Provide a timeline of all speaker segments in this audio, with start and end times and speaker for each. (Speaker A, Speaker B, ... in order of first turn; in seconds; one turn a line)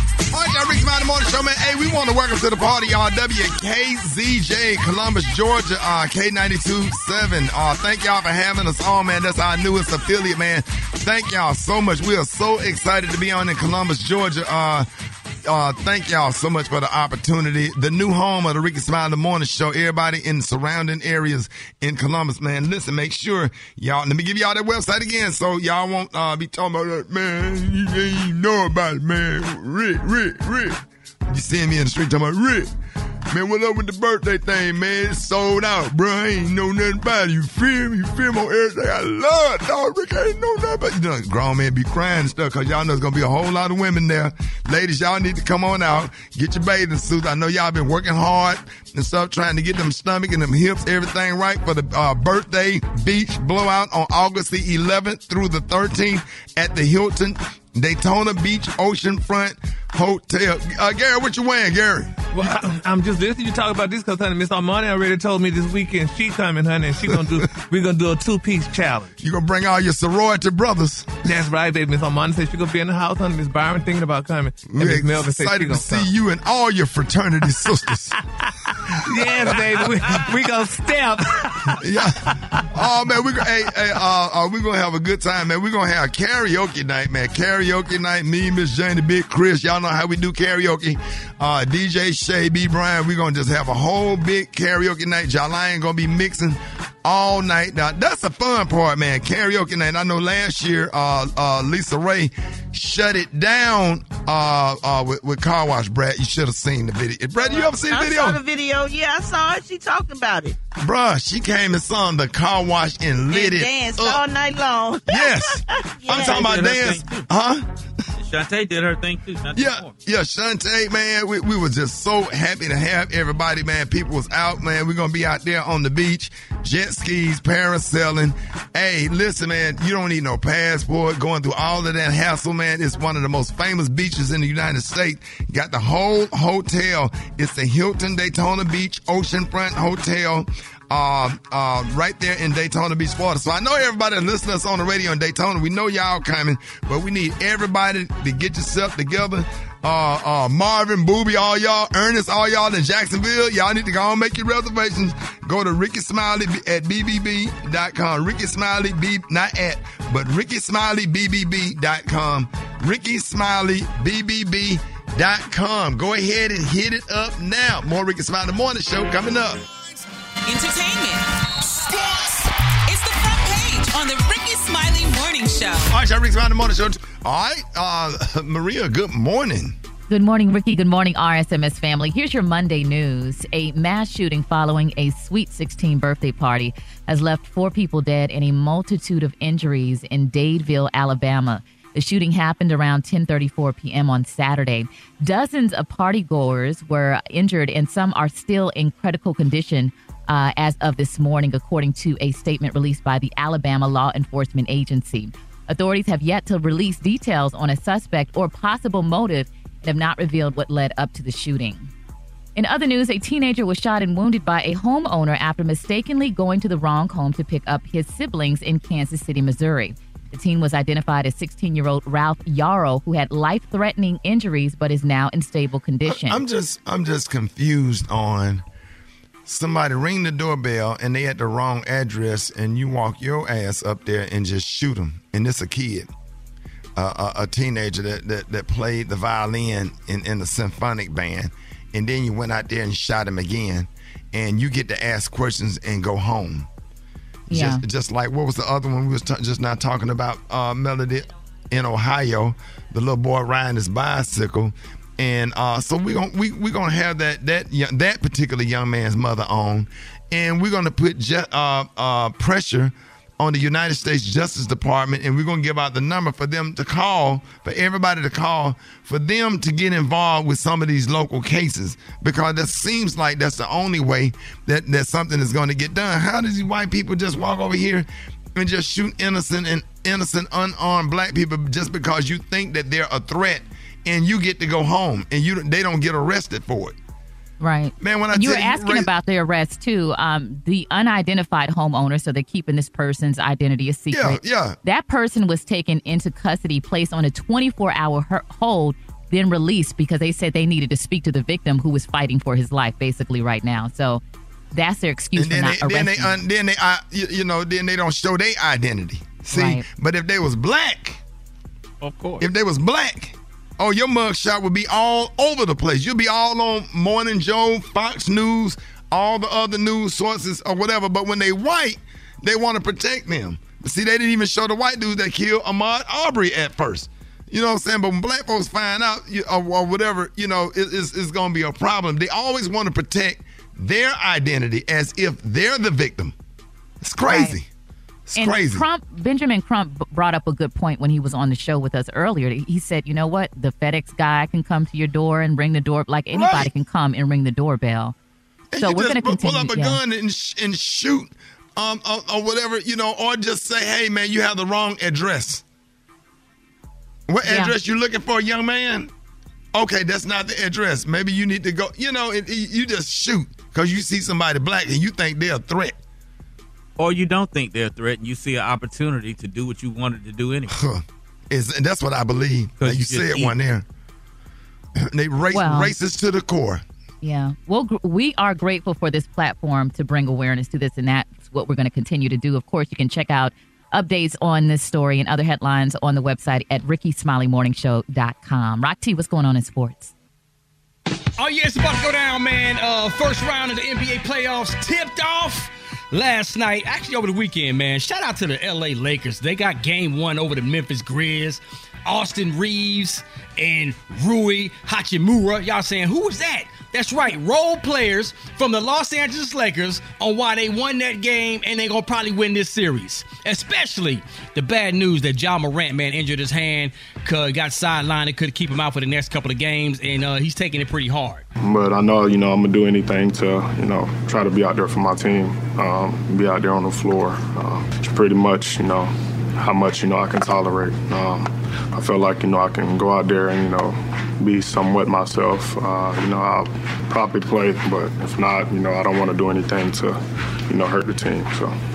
Speaker A: 0.3-14.9
Speaker A: 15.4-32.7
Speaker A: 33.3-62.2
Speaker B: 62.3-69.1
Speaker A: 69.2-71.1
Speaker B: 71.2-76.0
Speaker A: 74.7-78.2
Speaker B: 79.0-81.7
Speaker A: 81.8-82.1
Speaker A: 82.7-108.4
Speaker C: 107.4-110.6
Speaker A: 110.8-114.2
Speaker C: 113.3-116.5
Speaker A: 115.1-117.7
Speaker D: 116.1-117.2
Speaker D: 118.2-119.9
Speaker A: 119.5-169.6
Speaker E: 170.4-175.9
Speaker A: 175.9-179.8
Speaker F: 180.1-211.9
Speaker F: 212.6-226.4
Speaker A: 226.1-228.6
Speaker A: 229.4-236.1
Speaker A: 236.9-246.7
Speaker A: 247.5-286.9
Speaker F: 247.5-247.8
Speaker F: 287.6-304.2
Speaker A: 288.0-289.1
Speaker A: 294.1-294.8
Speaker F: 304.7-306.4
Speaker A: 305.4-311.2
Speaker F: 309.5-309.8
Speaker D: 312.0-312.4
Speaker A: 312.4-336.3
Speaker A: 337.0-337.7
Speaker F: 337.3-337.6
Speaker A: 338.3-338.8
Speaker F: 338.4-348.1
Speaker A: 346.3-346.7
Speaker A: 348.7-355.6
Speaker F: 348.8-350.0
Speaker A: 357.3-359.1
Speaker F: 357.4-357.7
Speaker A: 359.7-365.9
Speaker D: 367.0-370.7
Speaker A: 370.7-373.8
Speaker D: 372.8-373.5
Speaker A: 375.0-376.8
Speaker F: 375.5-375.9
Speaker F: 377.2-390.1
Speaker G: 391.4-421.4
Speaker H: 421.6-441.7